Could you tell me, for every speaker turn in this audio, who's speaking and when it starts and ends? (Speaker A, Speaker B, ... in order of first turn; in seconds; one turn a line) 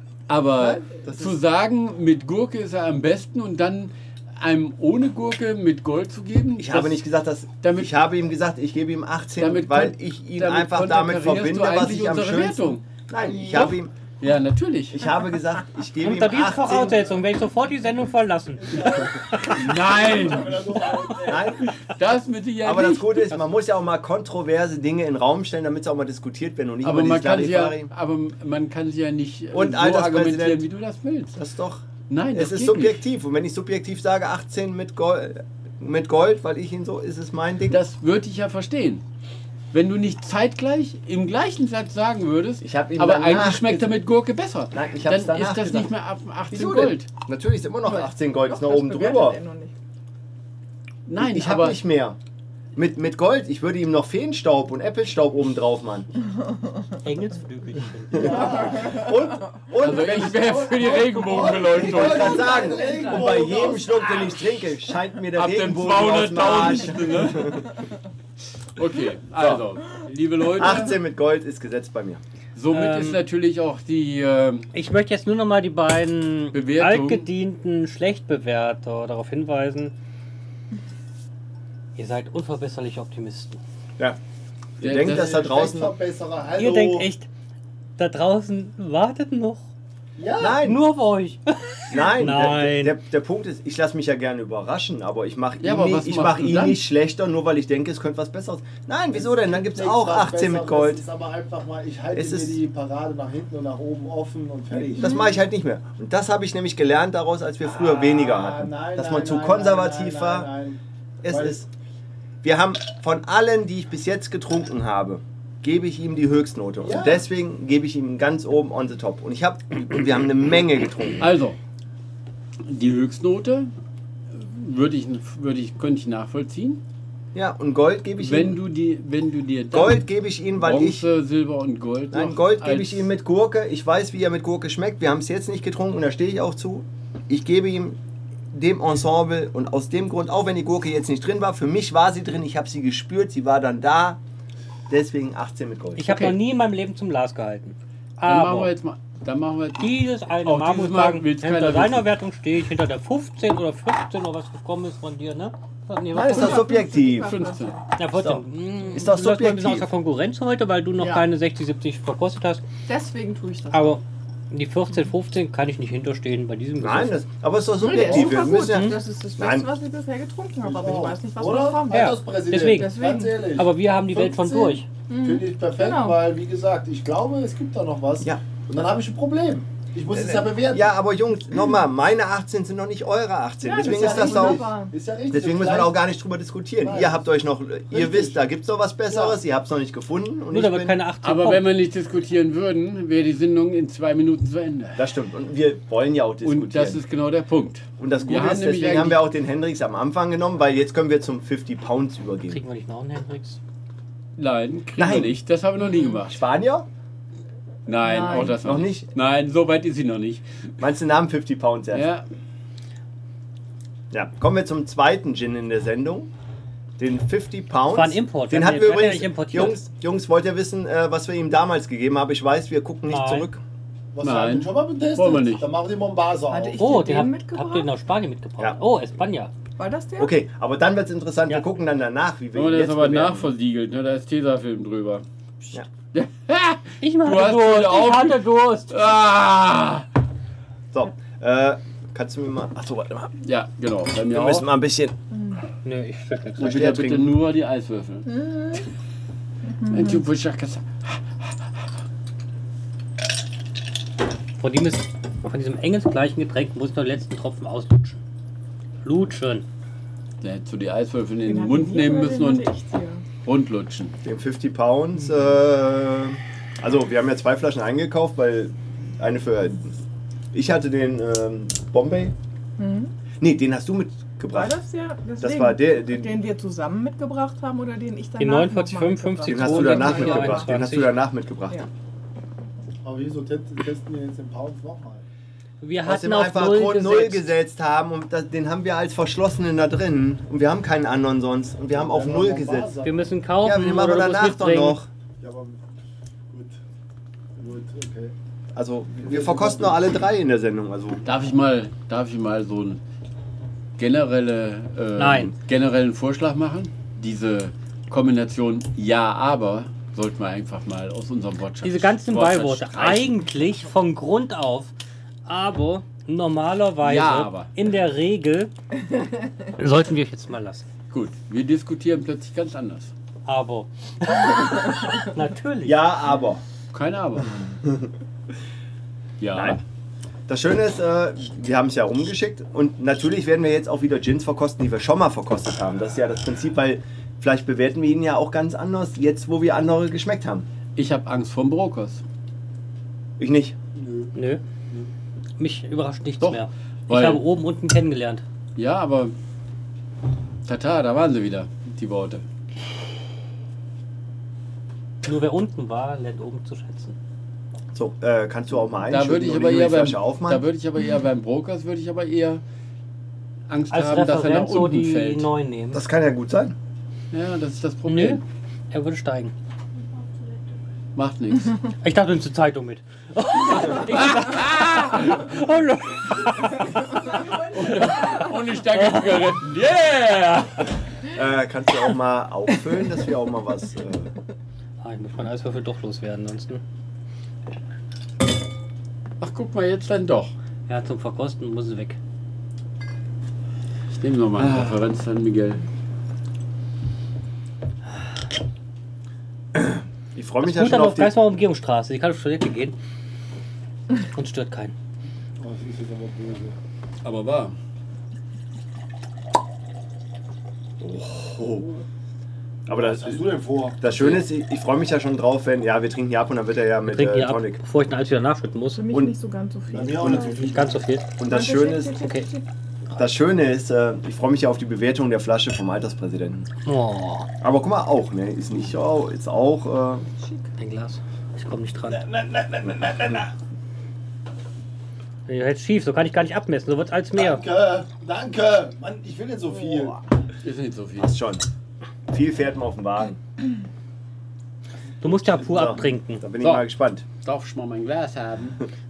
Speaker A: 0.3-7.0
Speaker B: 6.6-13.9
Speaker A: 7.6-8.0
Speaker A: 9.4-12.9
Speaker C: 13.2-13.7
Speaker A: 13.5-15.1
Speaker B: 14.9-17.0
Speaker D: 16.0-19.5
Speaker C: 18.6-21.6
Speaker A: 19.4-20.9
Speaker B: 21.2-21.6
Speaker A: 21.9-23.4
Speaker B: 22.6-27.9
Speaker A: 26.8-31.4
Speaker B: 29.5-30.6
Speaker B: 31.3-37.8
Speaker A: 32.1-33.0
Speaker A: 37.7-39.0
Speaker A: 39.7-47.1
Speaker B: 42.6-43.9
Speaker B: 44.7-45.9
Speaker B: 46.5-49.4
Speaker E: 46.6-46.9
Speaker E: 47.8-49.7
Speaker A: 51.0-51.8
Speaker B: 51.2-52.2
Speaker B: 52.7-56.1
Speaker D: 57.0-58.7
Speaker C: 58.1-59.0
Speaker B: 58.1-60.7
Speaker E: 58.3-59.1
Speaker A: 59.8-62.4
Speaker C: 60.2-64.4
Speaker B: 61.7-67.7
Speaker E: 62.4-63.4
Speaker A: 65.3-67.6
Speaker A: 68.8-71.0
Speaker B: 70.5-72.2
Speaker A: 72.5-74.7
Speaker D: 72.7-73.2
Speaker D: 74.7-79.9
Speaker A: 76.5-77.3
Speaker D: 82.0-83.6
Speaker A: 84.8-85.5
Speaker B: 84.8-85.9
Speaker C: 85.0-87.1
Speaker D: 86.6-87.3
Speaker D: 88.0-89.7
Speaker C: 90.2-90.6
Speaker B: 90.4-90.8
Speaker D: 90.6-93.0
Speaker B: 91.9-101.0
Speaker A: 95.6-96.8
Speaker C: 99.1-105.1
Speaker B: 102.1-102.6
Speaker E: 104.9-105.4
Speaker B: 105.0-110.5
Speaker C: 107.6-111.6
Speaker B: 111.2-111.7
Speaker B: 112.4-121.2
Speaker C: 116.8-117.2
Speaker A: 121.2-121.6
Speaker A: 122.6-123.7
Speaker A: 124.3-126.8
Speaker B: 127.3-128.6
Speaker A: 128.2-130.0
Speaker B: 129.7-131.1
Speaker A: 130.6-133.1
Speaker B: 132.1-138.0
Speaker B: 138.5-144.2
Speaker B: 144.9-146.1
Speaker D: 145.9-148.7
Speaker A: 146.1-146.3
Speaker A: 148.2-152.1
Speaker D: 149.8-156.7
Speaker B: 156.1-157.3
Speaker E: 156.2-157.8
Speaker A: 157.2-157.8
Speaker D: 157.9-162.6
Speaker B: 158.1-159.9
Speaker E: 161.0-161.2
Speaker E: 162.8-164.0
Speaker D: 163.7-167.2
Speaker B: 166.8-169.7
Speaker E: 167.8-173.4
Speaker C: 167.9-168.4
Speaker D: 168.5-169.0
Speaker C: 170.6-180.9
Speaker D: 171.9-173.0
Speaker D: 173.5-174.9
Speaker E: 175.1-176.2
Speaker B: 180.1-184.6
Speaker E: 183.6-184.9
Speaker C: 183.7-186.0
Speaker B: 185.3-191.0
Speaker C: 186.8-187.3
Speaker C: 187.9-188.4
Speaker C: 189.1-189.4
Speaker D: 190.5-191.7
Speaker A: 191.2-195.0
Speaker B: 194.9-197.0
Speaker A: 196.4-199.3
Speaker B: 198.0-202.6
Speaker D: 202.5-203.6
Speaker A: 204.4-206.4
Speaker B: 204.9-205.3
Speaker B: 206.3-206.9
Speaker A: 207.8-210.7
Speaker E: 208.0-208.6
Speaker B: 208.4-209.1
Speaker B: 210.8-212.1
Speaker A: 211.9-212.2
Speaker B: 214.1-216.3
Speaker B: 217.0-223.6
Speaker D: 217.9-219.8
Speaker D: 223.1-223.5
Speaker C: 224.1-226.8
Speaker A: 224.2-225.7
Speaker E: 226.5-227.9
Speaker D: 226.8-229.5
Speaker E: 229.8-230.3
Speaker B: 230.2-233.5
Speaker A: 232.5-235.2
Speaker A: 236.1-240.1
Speaker D: 237.0-239.1
Speaker B: 240.9-243.3
Speaker A: 243.4-244.7
Speaker B: 244.3-245.1
Speaker E: 245.3-245.6
Speaker D: 245.8-246.8
Speaker B: 246.6-247.3
Speaker A: 246.6-248.3
Speaker E: 248.3-248.8
Speaker E: 249.8-250.2
Speaker A: 249.9-251.5
Speaker D: 254.6-258.2
Speaker D: 259.0-259.6
Speaker A: 260.4-262.7
Speaker E: 261.4-263.2
Speaker A: 263.4-264.1
Speaker B: 264.2-270.0
Speaker B: 270.5-272.3
Speaker E: 272.8-273.1
Speaker B: 273.4-274.8
Speaker E: 274.5-280.7
Speaker B: 275.4-276.3
Speaker D: 278.4-281.2
Speaker B: 279.5-281.8
Speaker C: 283.0-285.2
Speaker D: 285.8-287.5
Speaker B: 286.0-292.9
Speaker C: 291.9-293.3
Speaker D: 293.0-295.0
Speaker B: 293.6-295.1
Speaker C: 295.4-295.8
Speaker C: 296.5-296.8
Speaker C: 297.6-298.3
Speaker B: 298.7-301.2
Speaker C: 299.2-300.0
Speaker A: 301.2-303.0
Speaker A: 304.0-313.3
Speaker D: 305.2-305.5
Speaker D: 311.8-314.9
Speaker D: 315.4-318.7
Speaker A: 317.0-317.7
Speaker D: 319.7-320.9
Speaker A: 321.1-323.1
Speaker D: 323.4-326.0
Speaker B: 325.8-326.6
Speaker A: 326.9-327.6
Speaker A: 329.4-329.8
Speaker B: 329.5-329.8
Speaker B: 330.5-340.6
Speaker A: 340.9-342.2
Speaker B: 343.4-343.7
Speaker C: 343.9-344.3
Speaker D: 344.3-344.6
Speaker D: 345.6-348.4
Speaker A: 346.4-347.4
Speaker A: 348.8-349.3
Speaker A: 350.6-352.4
Speaker D: 355.2-357.1
Speaker B: 357.9-360.6
Speaker A: 359.1-362.6
Speaker A: 363.7-365.5
Speaker D: 363.9-366.0
Speaker B: 365.9-366.8
Speaker A: 367.3-368.4
Speaker D: 368.1-369.5
Speaker A: 371.1-371.8
Speaker D: 372.0-376.9
Speaker A: 373.9-375.6
Speaker A: 377.5-380.9
Speaker D: 377.7-379.2
Speaker B: 381.3-384.3
Speaker D: 385.0-386.8
Speaker A: 389.4-390.5
Speaker D: 390.9-392.2
Speaker A: 394.1-395.8
Speaker B: 399.7-401.3
Speaker D: 400.6-402.9
Speaker D: 404.3-404.9
Speaker C: 405.6-406.8
Speaker A: 407.2-407.7
Speaker B: 411.0-411.9
Speaker C: 412.9-414.0
Speaker B: 412.9-417.8
Speaker A: 414.2-414.4
Speaker D: 417.1-419.1
Speaker E: 418.9-420.9
Speaker C: 419.9-421.0
Speaker D: 420.5-421.3
Speaker B: 421.4-422.2
Speaker E: 421.4-422.6
Speaker D: 422.2-422.5
Speaker B: 423.1-426.7
Speaker D: 426.9-427.5
Speaker B: 427.6-430.2
Speaker E: 430.4-430.7
Speaker D: 430.8-432.2
Speaker C: 432.1-433.5
Speaker D: 435.5-437.6
Speaker C: 437.3-440.2
Speaker A: 440.6-441.3
Speaker B: 441.2-441.6
Speaker B: 442.3-443.4
Speaker D: 445.2-446.4
Speaker C: 445.3-445.9
Speaker B: 445.6-447.2
Speaker A: 446.6-446.9
Speaker A: 447.4-448.8